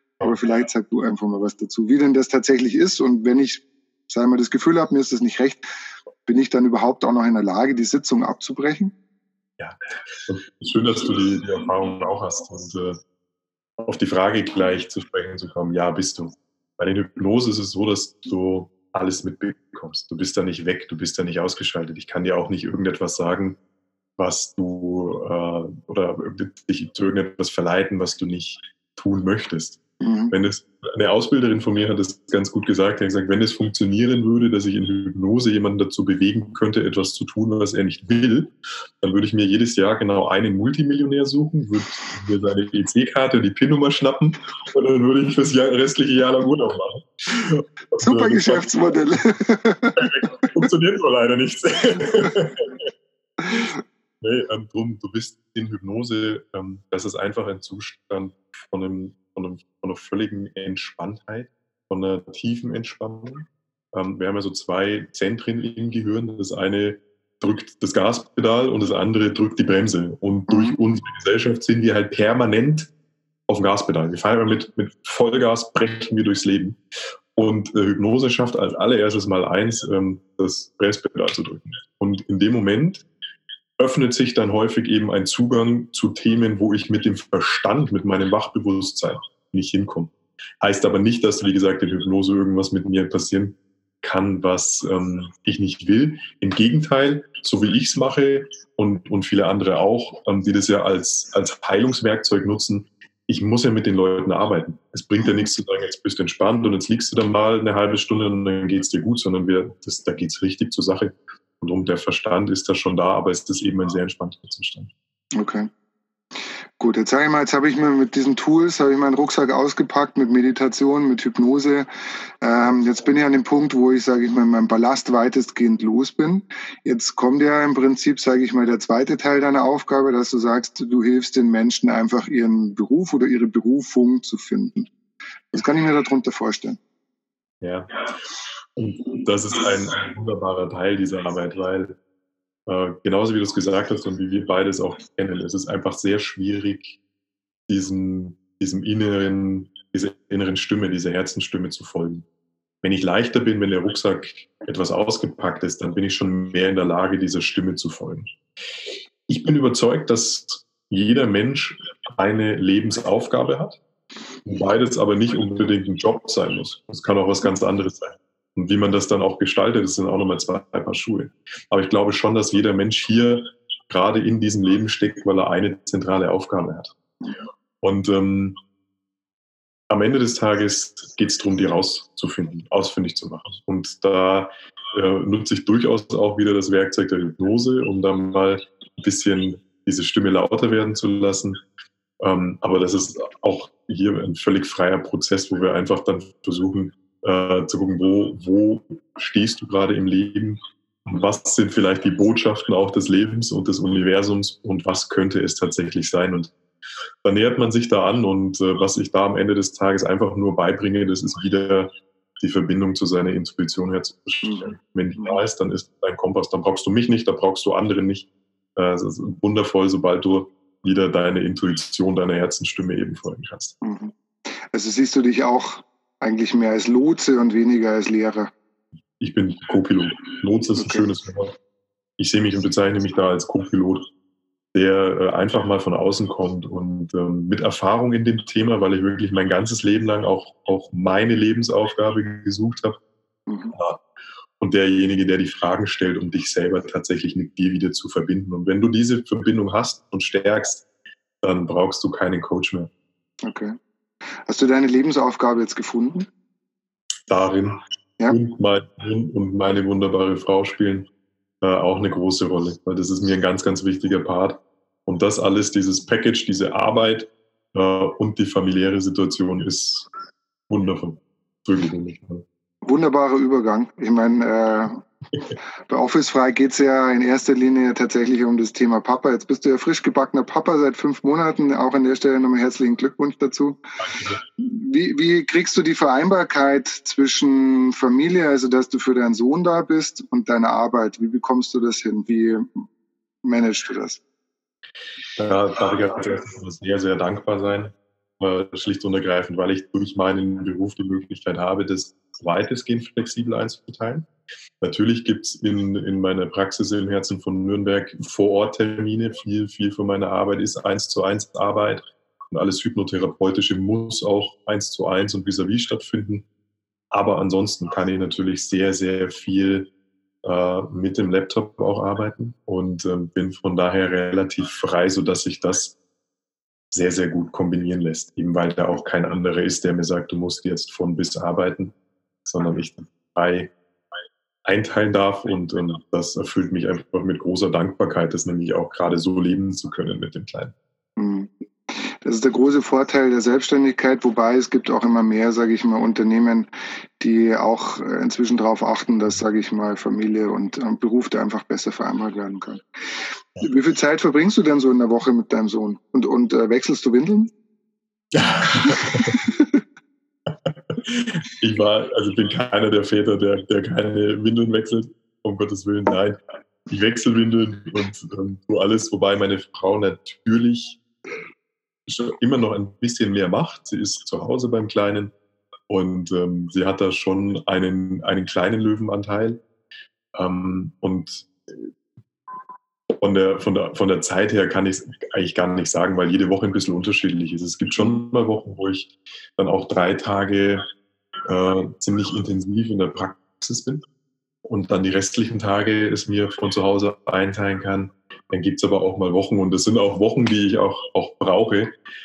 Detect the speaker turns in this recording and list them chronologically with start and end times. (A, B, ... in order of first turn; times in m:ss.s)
0:00.2-0:05.6 A
0:06.3-0:08.9 A
0:09.6-0:13.0 B
0:13.8-0:23.6 B
0:24.2-0:29.8 B
0:30.0-0:30.3 A
0:30.3-0:48.7 B
0:48.0-0:50.0 A
0:50.0-0:52.9 B
0:53.5-1:12.9 B
1:10.5-1:10.8 A
1:13.5-1:16.8 B
1:17.4-1:23.0 B
1:23.8-1:54.9 B
1:55.4-1:55.7 A
1:56.8-2:01.9 A
2:02.4-2:14.9 A
2:15.5-2:16.8 A
2:17.6-2:18.0 B
2:18.8-2:22.0 B
2:22.7-2:27.0 B
2:27.7-2:32.3 B
2:32.8-2:38.3 B
2:39.3-2:43.8 B
2:44.4-2:56.9 B
2:57.8-2:58.6 B
2:59.9-3:11.6 B
3:12.2-3:26.5 B
3:27.2-3:43.8 B
3:34.4-3:35.3 A
3:43.8-3:48.5 A
3:49.2-3:51.6 B
3:50.8-3:51.0 A
3:52.2-3:54.1 B
3:54.7-4:03.0 B
4:03.5-4:03.7 A
4:03.7-4:04.0 B
4:04.6-4:10.9 B
4:11.4-4:12.9 B
4:13.4-4:13.7 A
4:14.4-4:16.3 A
4:17.3-4:21.1 B
4:21.6-4:30.1 B
4:30.7-4:32.4 B
4:32.8-4:35.0 A
4:35.9-4:43.8 A
4:44.0-4:44.4 B
4:44.6-4:52.8 A
4:53.4-4:54.2 A
4:55.4-5:04.3 B
5:04.8-5:16.5 B
5:17.1-5:19.9 B
5:20.4-5:26.0 B
5:26.9-5:32.0 B
5:32.5-5:33.7 B
5:34.7-5:40.8 B
5:41.2-5:46.7 A
5:47.2-5:52.8 A
5:53.6-5:57.5 A
5:58.3-5:59.4 B
5:58.9-5:59.8 A
6:00.5-6:11.0 B
6:12.1-6:15.3 B
6:15.9-6:19.6 B
6:20.4-6:21.9 B
6:23.1-6:30.8 B
6:31.5-6:34.0 B
6:34.6-6:41.9 B